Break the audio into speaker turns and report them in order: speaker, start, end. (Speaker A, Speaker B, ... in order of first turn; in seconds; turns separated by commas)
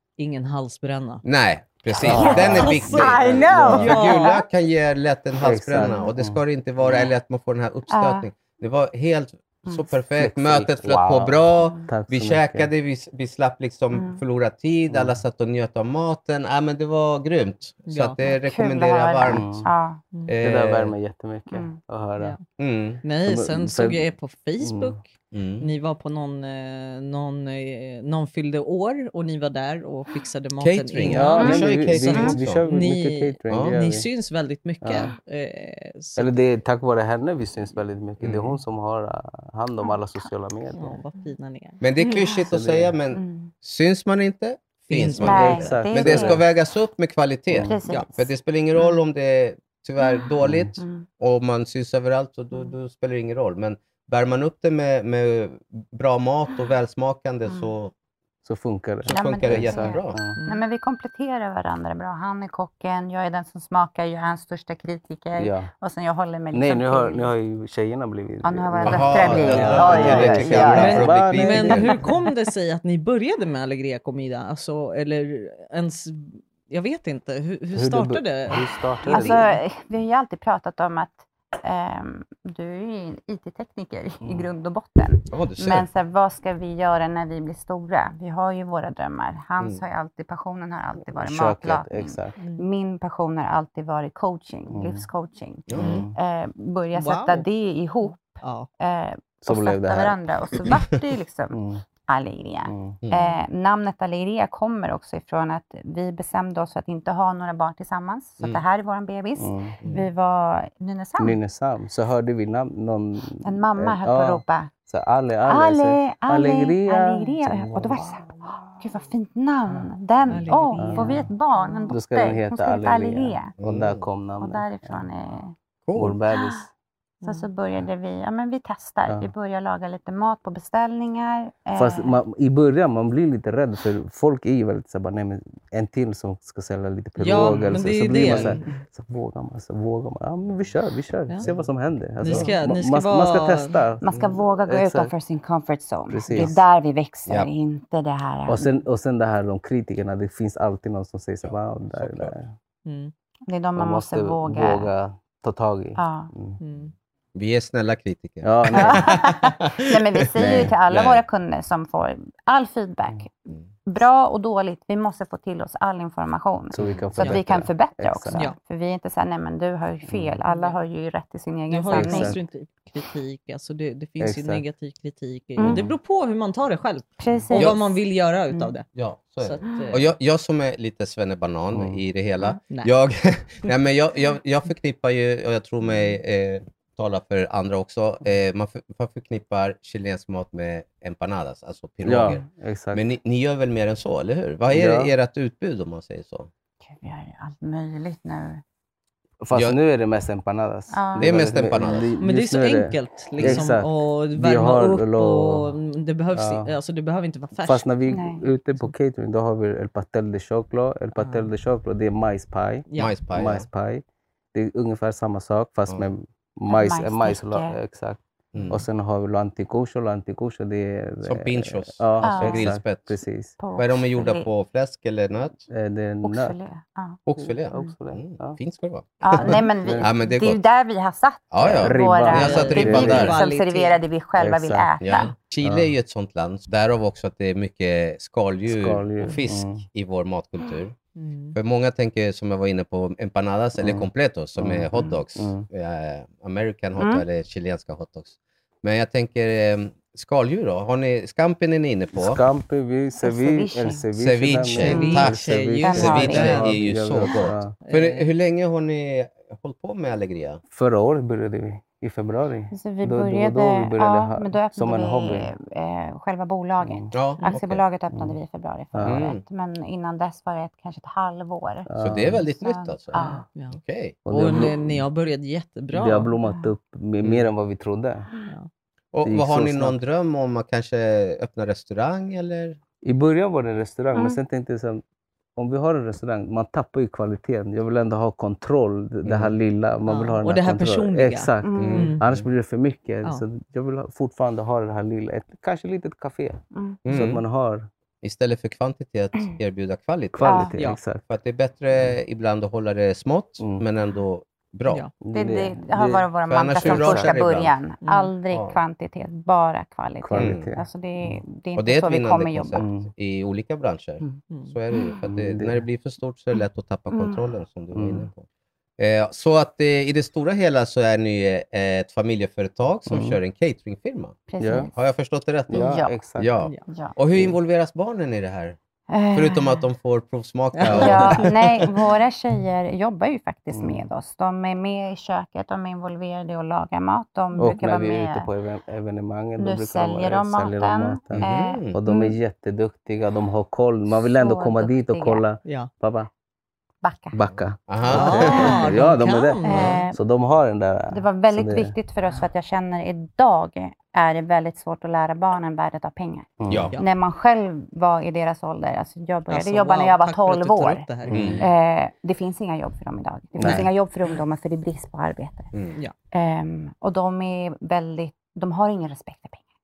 Speaker A: 0.2-1.2, Speaker B: 1.2-19.6, Speaker C: 2.0-4.4, Speaker D: 2.0-4.0, Speaker A: 2.0-4.4, Speaker D: 5.4-6.4, Speaker C: 5.8-6.1, Speaker C: 7.9-8.3, Speaker D: 10.2-12.7, Speaker C: 11.6-11.9, Speaker C: 13.9-14.2, Speaker D: 14.9-15.2, Speaker A: 17.9-18.2, Speaker C: 18.2-20.0, Speaker D: 19.3-19.7, Speaker B: 20.3-20.9, Speaker D: 20.4-22.4, Speaker C: 21.5-21.8, Speaker B: 22.6-23.0, Speaker A: 23.0-36.4, Speaker D: 23.2-24.0, Speaker D: 24.6-25.0, Speaker B: 25.3-25.7, Speaker B: 30.6-32.6, Speaker D: 31.0-34.1, Speaker C: 31.4-32.4, Speaker D: 34.8-35.1, Speaker D: 36.2-41.0, Speaker B: 38.2-38.5, Speaker C: 39.8-40.3, Speaker A: 40.8-41.8, Speaker B: 41.8-57.9, Speaker C: 42.0-42.4, Speaker D: 42.5-42.9, Speaker C: 43.1-43.5, Speaker A: 44.9-45.6, Speaker C: 45.2-46.4, Speaker D: 45.2-46.4, Speaker D: 47.5-47.8, Speaker C: 47.6-48.9, Speaker C: 50.0-51.0, Speaker D: 50.4-50.7, Speaker D: 58.4-60.4, Speaker B: 59.0-60.2, Speaker C: 59.0-67.3, Speaker A: 60.4-60.6, Speaker D: 65.3-65.7, Speaker D: 66.5-72.1, Speaker C: 68.4-71.1, Speaker B: 68.8-71.9, Speaker A: 69.4-79.6, Speaker D: 77.7-79.4, Speaker C: 79.1-111.4, Speaker D: 84.2-84.5, Speaker B: 85.3-85.8, Speaker D: 91.1-92.3, Speaker A: 92.4-92.6, Speaker D: 94.7-95.0, Speaker B: 95.7-96.0, Speaker D: 95.7-96.2, Speaker A: 96.9-97.4, Speaker A: 98.2-98.7, Speaker D: 99.4-100.2, Speaker D: 101.5-101.8, Speaker D: 102.7-103.0, Speaker D: 109.4-109.8, Speaker B: 109.8-110.1, Speaker D: 111.2-118.4, Speaker C: 113.4-114.7, Speaker C: 115.5-123.5, Speaker A: 120.3-121.9, Speaker D: 120.8-121.3, Speaker D: 121.9-125.0, Speaker B: 123.6-124.0, Speaker C: 124.4-125.5, Speaker B: 125.8-126.2, Speaker D: 126.0-126.7, Speaker C: 126.3-126.6, Speaker C: 127.2-132.2, Speaker D: 129.1-129.3, Speaker D: 131.7-145.1, Speaker A: 137.2-138.7, Speaker B: 138.2-138.6, Speaker A: 142.2-143.8, Speaker B: 142.2-142.5, Speaker C: 144.0-148.7, Speaker D: 146.1-146.6, Speaker D: 148.5-152.5, Speaker B: 151.4-152.3, Speaker A: 152.8-153.1, Speaker C: 153.5-154.9, Speaker D: 153.8-156.6, Speaker C: 156.0-156.3, Speaker A: 156.6-156.9, Speaker B: 157.3-161.2, Speaker D: 158.4-159.2, Speaker C: 158.7-172.4, Speaker D: 160.3-160.7, Speaker D: 166.7-168.4, Speaker B: 166.8-167.1, Speaker D: 170.1-170.4, Speaker A: 170.5-170.8, Speaker A: 171.7-178.9, Speaker D: 171.9-172.4, Speaker D: 174.2-174.6, Speaker C: 175.6-175.8, Speaker D: 175.6-175.9, Speaker C: 177.2-177.8, Speaker B: 177.5-177.8, Speaker B: 178.9-196.5, Speaker A: 179.4-180.1, Speaker D: 181.7-182.0, Speaker A: 182.6-182.9, Speaker D: 192.0-193.0, Speaker D: 194.7-195.1, Speaker C: 196.9-198.6, Speaker D: 199.4-205.7, Speaker C: 200.9-201.3, Speaker B: 201.2-202.1, Speaker A: 202.2-207.9, Speaker B: 203.4-203.7, Speaker D: 206.3-206.7, Speaker D: 207.6-214.0, Speaker C: 208.1-208.4, Speaker A: 211.2-211.5, Speaker A: 212.9-213.2, Speaker B: 213.0-213.7, Speaker D: 214.5-223.6, Speaker C: 216.7-217.8, Speaker B: 218.5-218.8, Speaker B: 221.2-223.2, Speaker C: 222.2-222.7, Speaker C: 223.6-224.5, Speaker B: 223.8-225.6, Speaker D: 225.7-226.6, Speaker C: 226.2-227.2, Speaker B: 227.3-230.6, Speaker D: 227.4-228.6, Speaker C: 229.2-235.3, Speaker D: 229.4-230.1, Speaker B: 231.5-233.4, Speaker D: 231.6-233.4, Speaker A: 232.3-234.0, Speaker D: 234.4-234.9, Speaker B: 235.0-240.9, Speaker D: 235.6-235.9, Speaker D: 238.7-239.8, Speaker A: 241.2-241.6, Speaker B: 241.5-252.4, Speaker D: 243.8-245.7, Speaker C: 247.0-247.2, Speaker D: 252.1-257.7, Speaker C: 253.2-254.0, Speaker B: 254.2-260.6, Speaker A: 254.8-256.6, Speaker C: 254.8-255.3, Speaker C: 255.8-256.6, Speaker A: 257.8-258.3, Speaker D: 260.7-265.5, Speaker C: 262.7-271.9, Speaker D: 266.8-267.1, Speaker B: 267.1-267.8, Speaker D: 268.9-269.2, Speaker B: 269.0-269.4, Speaker D: 271.9-272.4, Speaker B: 272.0-274.1, Speaker C: 272.6-273.4, Speaker A: 273.2-276.3, Speaker D: 274.2-275.1, Speaker D: 275.9-278.3, Speaker C: 276.4-276.7, Speaker B: 279.1-282.8, Speaker D: 279.2-280.0, Speaker D: 283.0-285.0, Speaker D: 285.6-297.9, Speaker B: 289.2-289.5, Speaker A: 290.1-292.2, Speaker C: 291.6-292.1, Speaker B: 291.8-292.5, Speaker C: 296.7-297.0, Speaker B: 297.0-297.4, Speaker B: 298.2-300.7, Speaker D: 300.3-301.2, Speaker C: 300.4-300.7, Speaker B: 301.3-305.0, Speaker D: 303.6-303.8, Speaker D: 305.2-307.4, Speaker C: 305.3-312.9, Speaker B: 306.5-307.7, Speaker A: 308.0-308.3, Speaker B: 308.5-308.8, Speaker D: 310.2-311.4, Speaker B: 310.4-310.7, Speaker B: 311.8-318.4, Speaker D: 312.8-313.1, Speaker A: 314.5-314.8, Speaker D: 315.2-315.8, Speaker C: 317.1-317.4, Speaker D: 317.9-318.3, Speaker B: 319.0-324.4, Speaker D: 323.1-323.4, Speaker C: 324.5-325.0, Speaker D: 324.6-324.9, Speaker B: 324.9-328.8, Speaker D: 325.7-326.5, Speaker C: 325.7-326.1, Speaker C: 326.9-327.1, Speaker C: 329.1-329.9, Speaker B: 329.3-331.9, Speaker A: 330.7-331.5, Speaker C: 330.9-338.5, Speaker D: 333.7-334.1, Speaker D: 337.6-346.3, Speaker C: 339.6-342.4, Speaker B: 341.3-342.0, Speaker C: 344.1-345.4, Speaker C: 347.0-347.4, Speaker D: 347.3-351.9, Speaker B: 347.9-348.9, Speaker A: 348.1-350.0, Speaker C: 348.1-348.8, Speaker C: 349.6-350.2, Speaker C: 351.1-361.1, Speaker D: 356.6-356.9, Speaker B: 356.7-356.9, Speaker A: 359.5-361.5, Speaker D: 361.2-361.6, Speaker B: 361.3-361.6, Speaker C: 361.6-365.7, Speaker D: 363.6-363.9, Speaker A: 363.6-364.4, Speaker B: 365.7-366.0, Speaker C: 366.3-369.6